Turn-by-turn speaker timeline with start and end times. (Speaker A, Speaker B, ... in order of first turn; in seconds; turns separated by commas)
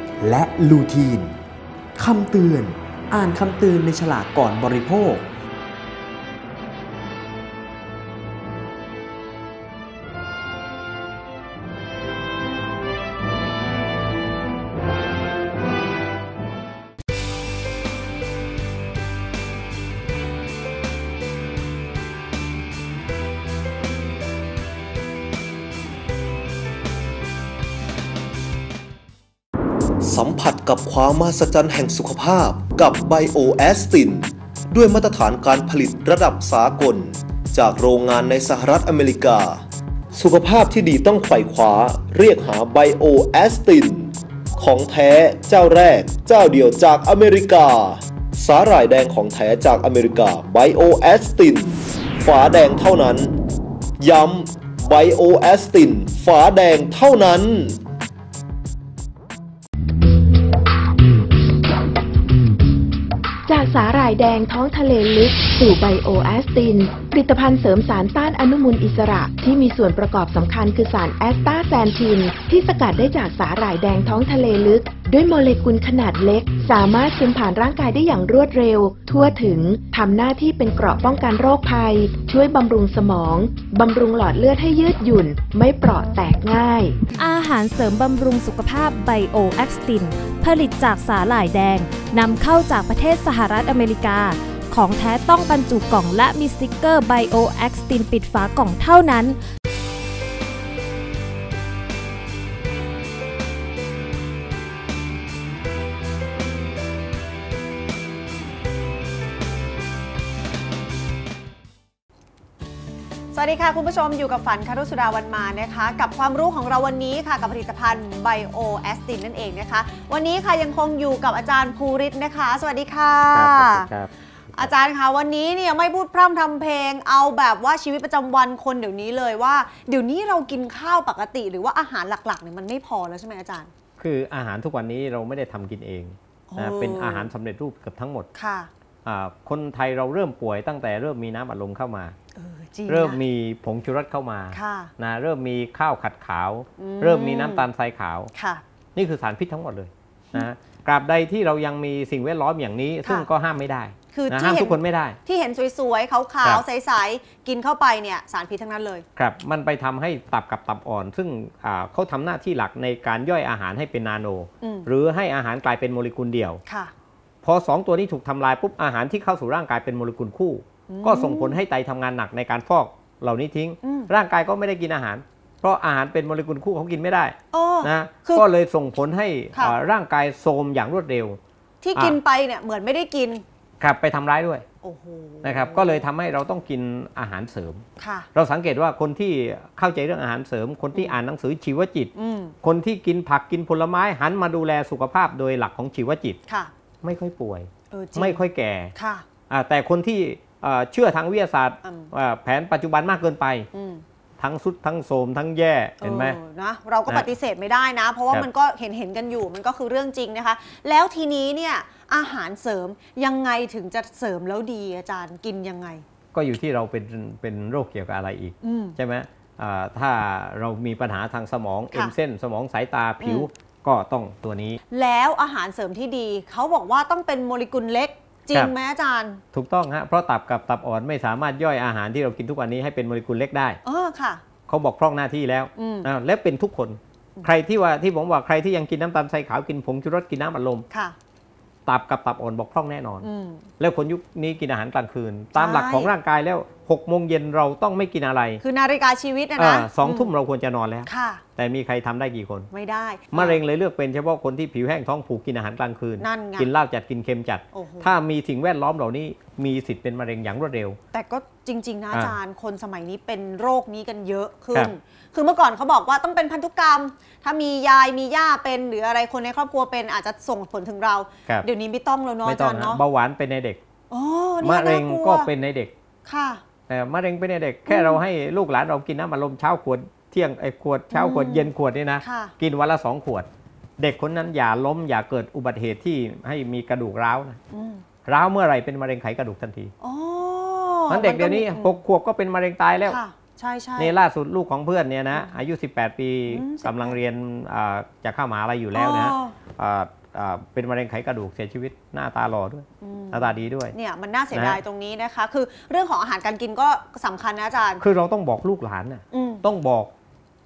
Speaker A: 0.2-1.4, Speaker A: 2.0-5.3, Speaker B: 30.0-39.6, Speaker B: 40.1-53.3, Speaker B: 54.0-57.8, Speaker C: 63.5-87.0, Speaker D: 87.2-99.4, Speaker E: 113.3-123.9, Speaker F: 123.3-124.7, Speaker E: 124.5-133.7, Speaker F: 134.0-138.3, Speaker E: 136.5-137.3, Speaker E: 138.3-138.7, Speaker F: 139.0-142.1, Speaker E: 142.3-143.2, Speaker F: 142.9-148.3, Speaker E: 144.5-144.9, Speaker E: 146.8-147.6, Speaker E: 148.3-148.6, Speaker F: 148.9-155.2, Speaker E: 154.1-159.0, Speaker F: 159.2-166.6, Speaker E: 164.6-164.9, Speaker E: 166.7-166.9, Speaker F: 167.4-181.4, Speaker E: 170.9-171.6, Speaker E: 173.8-174.1, Speaker E: 177.5-178.4, Speaker E: 181.8-183.4, Speaker F: 183.8-184.6, Speaker E: 184.8-186.0, Speaker F: 185.4-187.8, Speaker E: 188.0-188.3, Speaker F: 188.3-192.1, Speaker E: 192.1-192.5, Speaker F: 192.6-196.4, Speaker F: 197.0-198.9, Speaker E: 197.9-198.4, Speaker E: 198.9-199.2, Speaker F: 199.5-203.7, Speaker E: 201.8-202.1, Speaker E: 203.7-204.0, Speaker F: 204.4-206.4, Speaker E: 206.0-216.0, Speaker F: 216.3-224.8, Speaker E: 218.6-219.0, Speaker E: 223.2-223.5, Speaker E: 224.9-229.4, Speaker F: 229.5-233.8, Speaker E: 233.8-234.4, Speaker F: 234.7-240.8, Speaker E: 235.8-236.1, Speaker E: 240.9-241.2, Speaker F: 241.8-243.3, Speaker E: 243.2-243.6, Speaker F: 243.8-248.6, Speaker E: 245.6-246.1, Speaker E: 248.6-250.3, Speaker F: 249.6-252.7, Speaker E: 251.1-251.4, Speaker E: 252.7-253.6, Speaker F: 253.3-261.0, Speaker E: 256.2-256.7, Speaker E: 257.7-258.1, Speaker E: 261.1-273.0, Speaker F: 272.4-273.8, Speaker E: 274.1-275.5, Speaker F: 274.6-275.9, Speaker E: 276.2-276.6, Speaker F: 276.9-283.5, Speaker E: 277.9-278.2, Speaker E: 281.1-282.5, Speaker F: 284.0-287.6, Speaker E: 287.7-288.0, Speaker F: 288.2-289.9, Speaker E: 290.0-292.0, Speaker F: 291.1-293.2, Speaker E: 293.1-294.1, Speaker F: 294.0-303.9, Speaker E: 296.5-297.2, Speaker E: 298.9-299.6, Speaker E: 303.0-308.0, Speaker F: 304.5-304.8, Speaker F: 308.0-310.1, Speaker E: 309.3-309.6